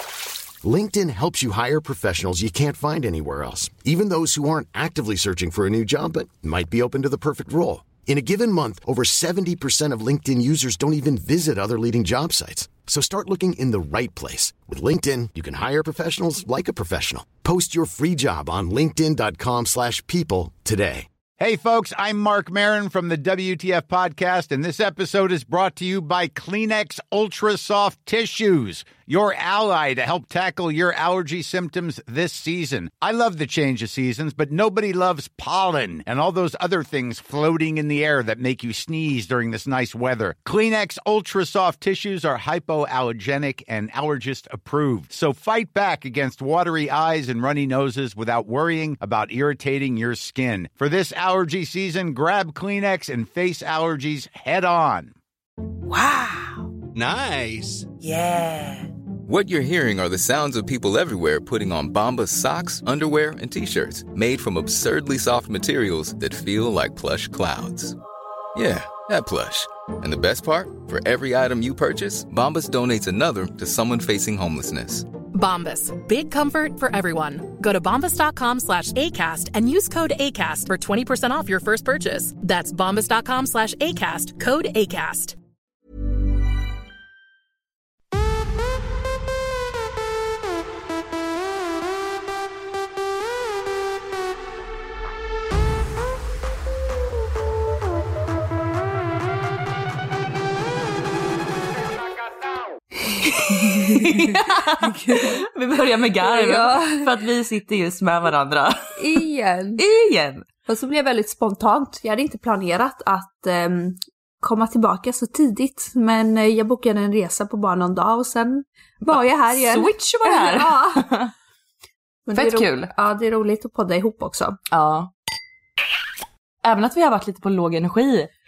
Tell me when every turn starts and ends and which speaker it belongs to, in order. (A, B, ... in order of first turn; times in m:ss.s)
0:00.6-0:21.1 A
0:21.4-0:55.1 B
0:55.9-0:56.7 C
0:57.0-0:57.8 B
0:58.0-1:08.0 C
1:08.6-1:15.1 C
1:15.3-1:25.4 D
1:43.4-1:49.0 E
1:43.5-1:45.4 F
1:46.2-1:47.1 F
1:49.0-1:49.8 F
1:49.8-1:50.5 E
1:50.7-2:01.1 F
1:59.1-2:01.3 E
2:02.3-2:04.6 F
2:02.3-2:02.9 E
2:04.7-2:05.1 E
2:06.6-2:08.3 E